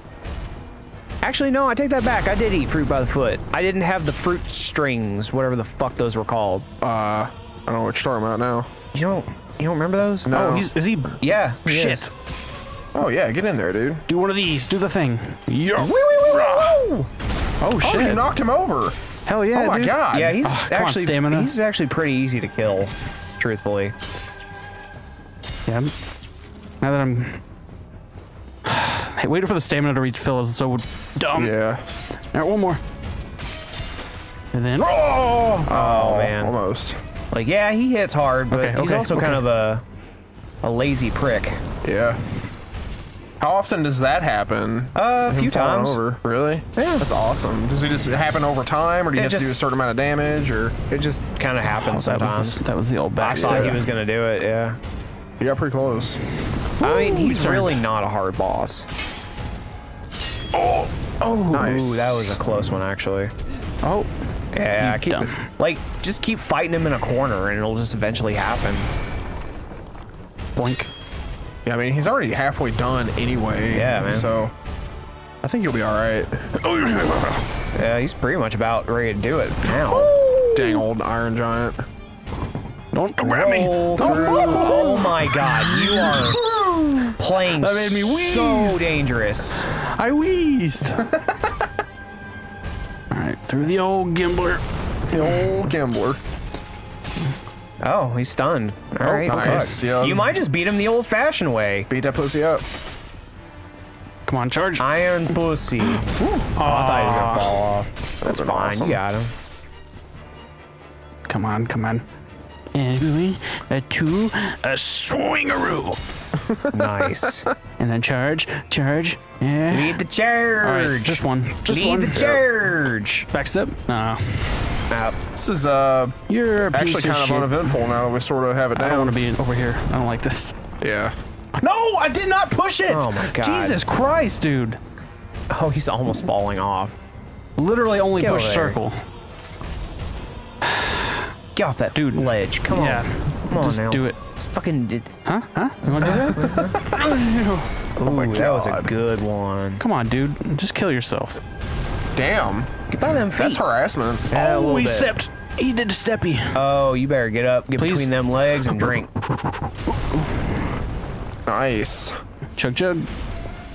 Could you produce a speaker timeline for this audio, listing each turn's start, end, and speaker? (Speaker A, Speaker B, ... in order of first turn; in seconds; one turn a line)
Speaker A: 1.2-6.7
Speaker B: 6.8-8.7
Speaker A: 8.9-10.4
Speaker B: 10.3-10.7
Speaker C: 10.3-12.1
Speaker A: 11.2-12.1
Speaker B: 12.9-14.0
Speaker C: 14.1-16.8
Speaker A: 15.8-17.1
Speaker C: 17.6-18.3
Speaker B: 17.8-19.0
Speaker C: 19.3-21.5
Speaker B: 19.5-20.4
Speaker A: 20.1-23.9
Speaker C: 25.7-25.9
Speaker C: 26.8-27.4
Speaker C: 28.6-31.5
Speaker B: 31.4-31.9
Speaker C: 32.3-32.8
Speaker C: 34.5-35.7
Speaker B: 35.7-37.0
Speaker A: 35.7-36.5
Speaker A: 37.3-39.8
Speaker C: 38.5-39.4
Speaker A: 40.6-41.6
Speaker B: 41.8-42.2
Speaker B: 43.4-50.8
Speaker A: 45.0-46.0
Speaker A: 46.8-47.0
Speaker A: 49.1-49.5
Speaker A: 50.9-52.6
Speaker C: 51.7-53.8
Speaker A: 53.2-54.8
Speaker B: 53.3-53.9
Speaker B: 55.4-56.2
Speaker C: 56.8-57.8
Speaker A: 56.8-58.9
Speaker C: 60.5-61.6
Speaker A: 61.5-63.3
Speaker B: 61.5-62.4
Speaker C: 63.8-64.1
Speaker A: 64.5-68.9
Speaker C: 64.8-65.4
Speaker C: 70.6-70.9
Speaker B: 71.7-74.5
Speaker A: 73.7-74.3
Speaker B: 75.4-76.5
Speaker C: 76.6-77.5
Speaker A: 77.8-80.1
Speaker C: 79.7-80.9
Speaker B: 80.5-81.8
Speaker C: 82.9-89.0
Speaker A: 83.2-86.4
Speaker B: 84.0-84.9
Speaker A: 87.2-89.7
Speaker C: 89.7-91.0
Speaker C: 93.1-94.6
Speaker B: 95.1-96.2
Speaker C: 95.2-95.5
Speaker A: 97.8-101.9
Speaker C: 99.0-99.8
Speaker B: 99.1-100.3
Speaker B: 101.9-102.6
Speaker C: 104.3-107.8
Speaker A: 104.8-109.3
Speaker B: 108.2-109.0
Speaker C: 111.3-112.0
Speaker C: 112.7-116.0
Speaker A: 116.7-117.5
Speaker C: 117.8-120.0
Speaker A: 119.7-123.3
Speaker C: 120.6-122.5
Speaker C: 123.3-124.6
Speaker A: 124.9-125.2
Speaker B: 125.4-129.2
Speaker C: 126.3-127.8
Speaker C: 128.8-130.6
Speaker B: 130.8-131.2
Speaker C: 131.6-134.8
Speaker A: 132.9-133.8
Speaker A: 135.5-137.0
Speaker C: 137.6-139.0
Speaker A: 138.2-138.8
Speaker A: 141.6-145.1
Speaker C: 141.9-144.2
Speaker C: 145.2-147.7
Speaker A: 146.0-146.8
Speaker B: 146.2-146.8
Speaker A: 148.0-149.8
Speaker B: 148.0-148.9
Speaker C: 149.8-151.4
Speaker B: 152.2-152.7
Speaker A: 152.9-153.6
Speaker B: 153.4-154.3
Speaker A: 154.3-155.1
Speaker C: 154.3-156.6
Speaker A: 156.5-159.1
Speaker C: 157.8-159.5
Speaker B: 161.5-162.2
Speaker C: 162.6-163.1